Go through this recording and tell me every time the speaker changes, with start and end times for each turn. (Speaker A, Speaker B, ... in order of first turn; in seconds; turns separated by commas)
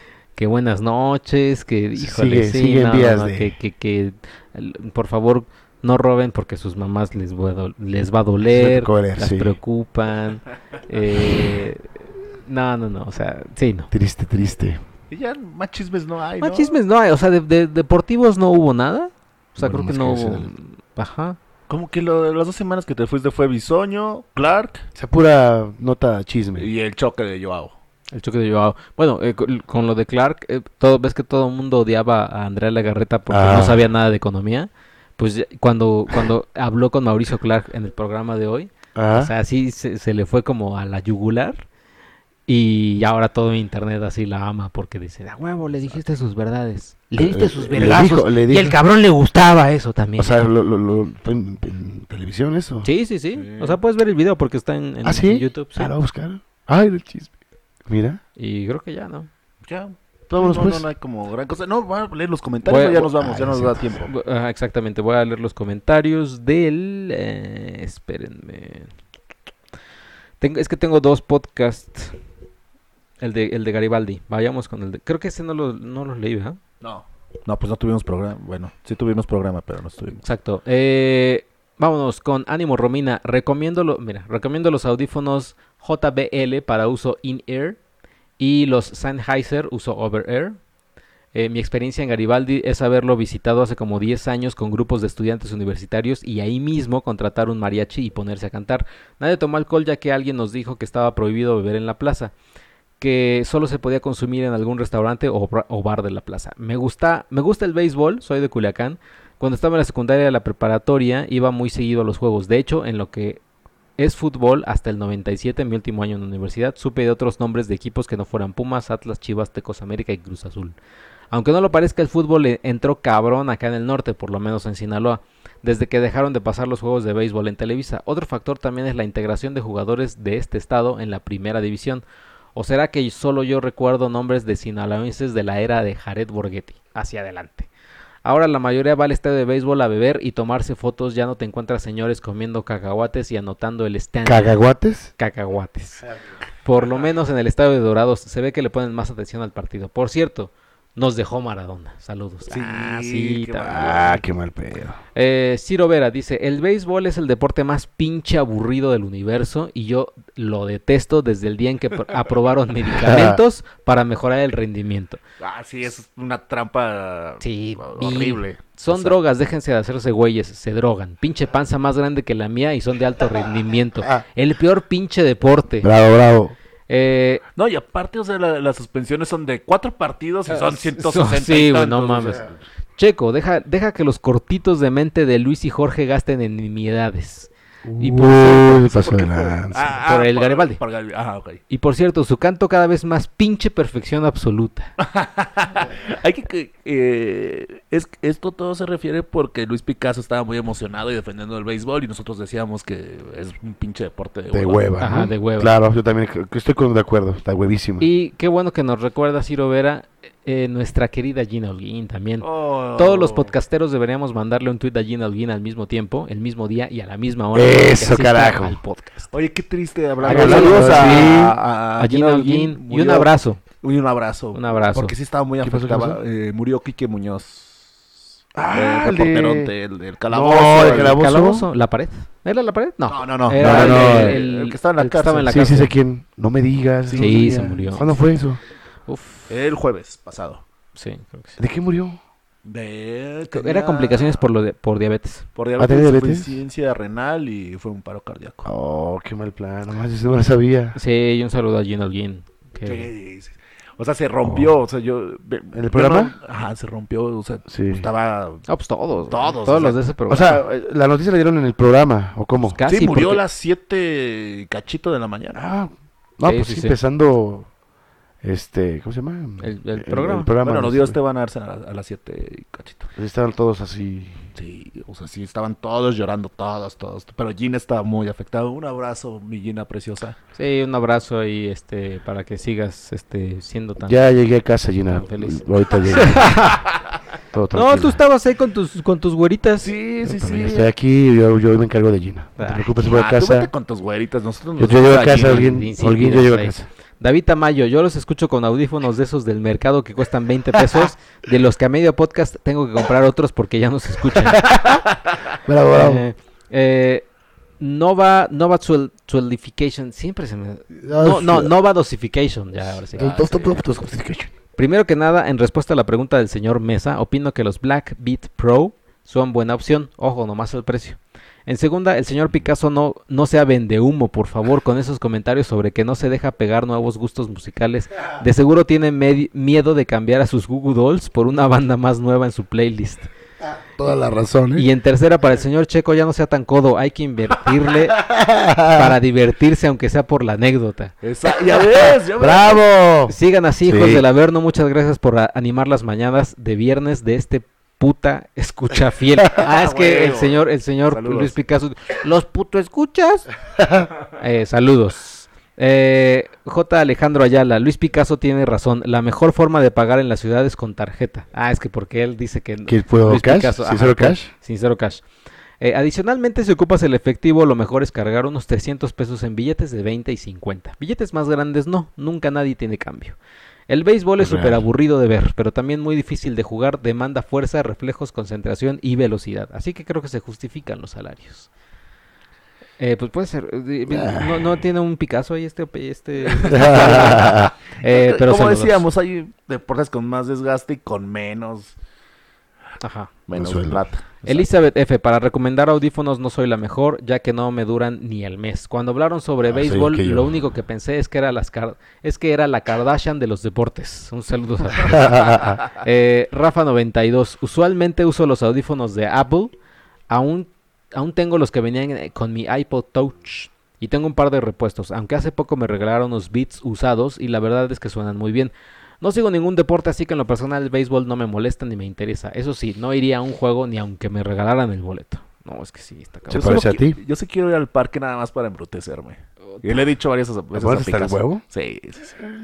Speaker A: 0.3-13.9, Speaker B: 1.9-3.5, Speaker B: 8.4-9.6, Speaker B: 13.9-14.8, Speaker C: 15.1-16.7, Speaker A: 16.4-21.4, Speaker B: 19.6-20.5, Speaker C: 21.7-24.8, Speaker B: 24.9-26.7, Speaker C: 26.6-27.7, Speaker A: 28.1-41.6, Speaker B: 33.3-33.8, Speaker B: 38.9-39.3, Speaker A: 42.5-50.3, Speaker B: 47.2-48.8, Speaker B: 50.2-52.9, Speaker A: 52.8-55.9, Speaker C: 53.4-53.8, Speaker B: 55.0-57.3, Speaker B: 57.9-58.2, Speaker A: 58.4-59.3, Speaker C: 59.7-64.1, Speaker B: 60.3-60.8, Speaker A: 62.6-63.1, Speaker B: 63.1-64.1, Speaker A: 64.0-68.9, Speaker A: 70.4-72.2, Speaker A: 73.2-76.6, Speaker C: 76.8-80.2, Speaker A: 80.2-87.8, Speaker A: 88.4-90.6, Speaker A: 91.3-102.3, Speaker A: 103.0-113.4, Speaker A: 114.0-120.8, Speaker A: 121.3-132.0, Speaker A: 132.5-137.7, Speaker A: 138.2-144.6, Speaker B: 144.2-145.1, Speaker A: 145.2-146.1, Speaker A: 146.6-154.1, Speaker C: 152.5-154.2, Speaker B: 153.7-155.0, Speaker A: 155.1-165.2, Speaker B: 162.9-163.4, Speaker C: 165.4-169.2, Speaker A: 167.4-175.9, Speaker B: 175.8-176.5, Speaker A: 176.9-177.4, Speaker C: 177.6-182.6, Speaker A: 180.5-182.4, Speaker A: 183.0-189.1, Speaker B: 187.8-190.0, Speaker C: 188.8-191.6, Speaker A: 190.0-190.8, Speaker A: 191.7-194.9, Speaker C: 195.0-204.8, Speaker B: 204.5-208.1, Speaker A: 205.0-205.7, Speaker A: 208.0-219.3, Speaker C: 212.4-213.5, Speaker B: 217.5-218.8, Speaker C: 219.3-228.1, Speaker B: 220.2-221.6, Speaker A: 220.2-221.4, Speaker A: 222.0-223.6, Speaker A: 224.5-225.1, Speaker B: 225.6-226.2, Speaker B: 228.5-229.7, Speaker C: 228.7-231.2, Speaker B: 230.3-231.7, Speaker A: 230.7-235.9, Speaker C: 233.1-235.8, Speaker B: 233.6-234.4, Speaker B: 235.4-238.6, Speaker C: 237.1-237.4, Speaker A: 237.2-238.1, Speaker A: 239.1-239.5, Speaker C: 239.5-240.6, Speaker A: 240.9-241.6, Speaker B: 241.6-242.2, Speaker C: 242.6-244.4, Speaker A: 243.5-245.4, Speaker C: 245.6-248.7, Speaker B: 245.8-246.6, Speaker B: 248.6-250.9, Speaker A: 250.9-253.1, Speaker C: 252.8-258.7, Speaker B: 254.4-254.7, Speaker B: 255.7-256.3, Speaker B: 257.7-258.1, Speaker A: 258.7-260.6, Speaker C: 259.3-260.0, Speaker B: 260.3-262.8, Speaker A: 262.7-263.4, Speaker C: 262.9-265.6, Speaker B: 265.5-267.7, Speaker A: 266.4-267.0, Speaker B: 268.4-271.2, Speaker A: 269.6-270.5, Speaker C: 270.6-273.1, Speaker B: 273.1-274.4, Speaker C: 274.6-280.4, Speaker A: 280.6-284.3, Speaker B: 284.0-286.6, Speaker A: 285.1-286.8, Speaker B: 287.5-288.2, Speaker A: 287.7-289.9, Speaker C: 289.8-290.9, Speaker B: 290.2-293.7, Speaker A: 292.6-292.9, Speaker C: 292.9-295.7, Speaker B: 294.8-296.9, Speaker A: 295.3-305.0, Speaker B: 305.6-306.2, Speaker A: 305.9-307.2, Speaker A: 307.8-313.8, Speaker B: 311.0-311.7, Speaker B: 313.1-314.5, Speaker C: 313.2-313.7, Speaker A: 314.8-333.3, Speaker B: 333.9-334.9, Speaker A: 334.7-338.2, Speaker B: 338.2-339.1, Speaker A: 338.9-341.1, Speaker C: 341.2-342.8, Speaker B: 341.7-344.2, Speaker A: 343.3-353.5, Speaker C: 349.6-351.5, Speaker B: 353.8-354.1, Speaker A: 354.4-365.2, Speaker B: 362.9-364.5, Speaker A: 365.8-373.4, Speaker A: 373.9-381.7, Speaker B: 374.4-374.8, Speaker A: 383.0-389.0, Speaker B: 384.1-384.8, Speaker C: 386.6-391.9, Speaker B: 386.7-387.7, Speaker A: 393.0-393.3, Speaker C: 393.5-394.6, Speaker B: 393.5-394.0, Speaker A: 394.4-409.7, Speaker B: 399.7-400.5, Speaker B: 405.0-405.8, Speaker A: 410.3-426.9, Speaker C: 426.5-432.4, Speaker B: 426.5-427.2, Speaker B: 430.7-431.6